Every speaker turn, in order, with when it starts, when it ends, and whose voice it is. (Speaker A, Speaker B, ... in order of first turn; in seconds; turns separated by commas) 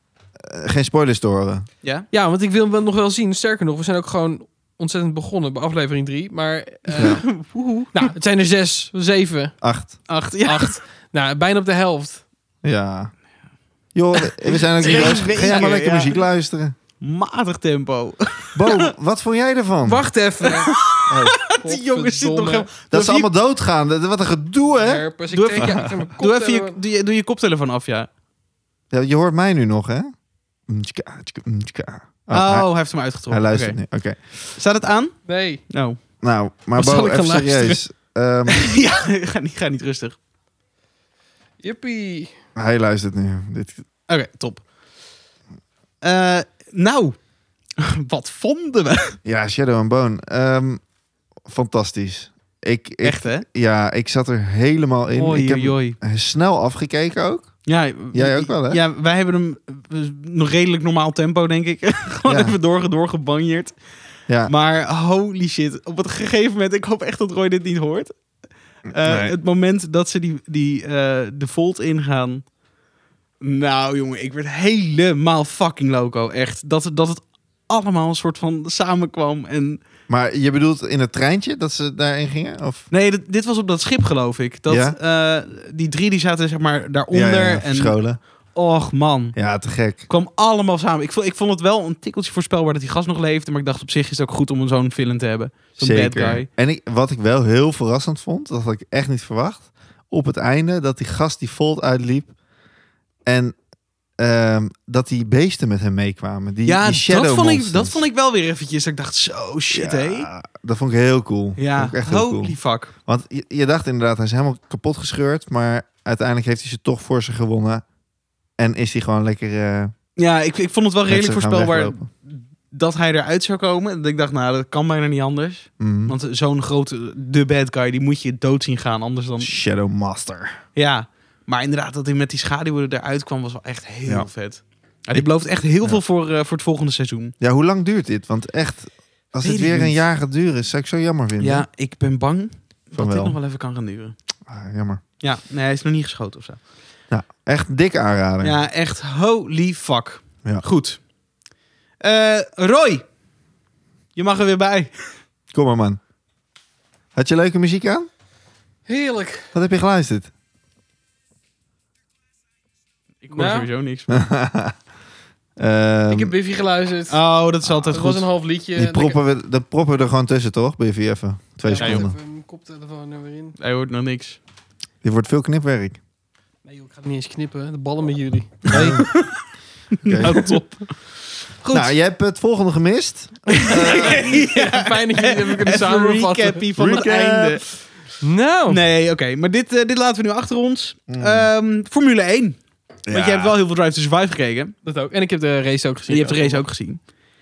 Speaker A: 0.4-1.7, Speaker B: 2.1-7.3, Speaker C: 6.9-8.0, Speaker A: 7.0-7.2, Speaker B: 7.9-9.6, Speaker A: 9.6-10.0, Speaker C: 10.1-10.8, Speaker B: 10.4-12.2, Speaker A: 12.6-13.1, Speaker A: 13.9-16.8, Speaker C: 14.2-16.2, Speaker B: 14.9-15.2, Speaker C: 17.0-18.9, Speaker A: 18.6-20.1, Speaker B: 19.9-20.8, Speaker C: 20.4-23.3, Speaker A: 21.1-21.4, Speaker B: 21.4-22.7, Speaker A: 22.9-25.1, Speaker B: 24.8-26.8, Speaker C: 25.3-28.1, Speaker A: 25.6-25.9, Speaker A: 28.9-30.1, Speaker A: 30.7-32.7, Speaker C: 32.3-33.8, Speaker A: 33.3-34.2, Speaker C: 34.5-36.0, Speaker B: 35.3-35.6, Speaker A: 36.2-38.7, Speaker B: 36.8-37.8, Speaker C: 38.5-40.2, Speaker B: 41.6-42.4, Speaker A: 42.5-43.8, Speaker C: 44.1-44.7, Speaker C: 46.0-47.2, Speaker C: 47.8-49.2, Speaker A: 49.2-50.8, Speaker A: 51.5-57.5, Speaker C: 53.0-53.5, Speaker C: 55.2-56.0, Speaker C: 57.7-63.8, Speaker A: 58.1-58.8, Speaker A: 62.3-62.5, Speaker C: 64.5-68.2, Speaker C: 68.9-72.5, Speaker A: 68.9-69.3, Speaker C: 73.4-79.8, Speaker A: 80.1-82.8, Speaker C: 82.9-89.4, Speaker A: 84.7-85.0, Speaker A: 87.1-88.2, Speaker A: 89.3-90.0, Speaker C: 90.1-96.5, Speaker A: 95.8-102.3, Speaker A: 103.3-103.6, Speaker A: 104.2-108.0, Speaker C: 106.7-110.3, Speaker A: 109.7-117.8, Speaker C: 111.6-112.9, Speaker A: 118.6-119.9, Speaker C: 120.2-129.5, Speaker A: 121.1-122.0, Speaker A: 125.8-126.2, Speaker A: 129.4-130.6, Speaker C: 130.8-137.3, Speaker A: 137.4-141.7, Speaker C: 139.4-140.0, Speaker C: 141.4-144.2, Speaker A: 143.0-143.4, Speaker A: 144.5-145.0, Speaker C: 145.2-146.6, Speaker A: 147.1-148.6, Speaker C: 148.4-151.0, Speaker C: 152.0-153.0, Speaker C: 154.2-154.9, Speaker A: 155.5-156.0, Speaker A: 157.2-158.1, Speaker B: 158.9-159.5, Speaker A: 159.5-160.3, Speaker C: 163.2-164.3, Speaker B: 163.3-163.7, Speaker A: 164.1-164.8, Speaker A: 165.6-166.3, Speaker B: 166.1-167.2, Speaker C: 167.1-168.3, Speaker A: 167.7-167.9, Speaker B: 167.9-169.2, Speaker A: 168.8-172.2, Speaker B: 171.6-173.6, Speaker C: 171.8-172.1, Speaker C: 173.6-174.4, Speaker A: 175.0-176.0, Speaker B: 176.7-179.1, Speaker A: 178.7-179.2, Speaker C: 178.7-179.4, Speaker C: 180.0-180.9, Speaker A: 180.1-180.4, Speaker B: 180.2-180.6, Speaker B: 181.6-181.9, Speaker A: 181.7-184.4, Speaker B: 183.6-187.0, Speaker C: 183.6-187.8, Speaker A: 186.8-187.6, Speaker B: 188.2-188.8, Speaker C: 188.7-194.8, Speaker A: 191.1-191.5, Speaker A: 193.1-193.6, Speaker B: 194.8-196.6, Speaker C: 196.1-197.0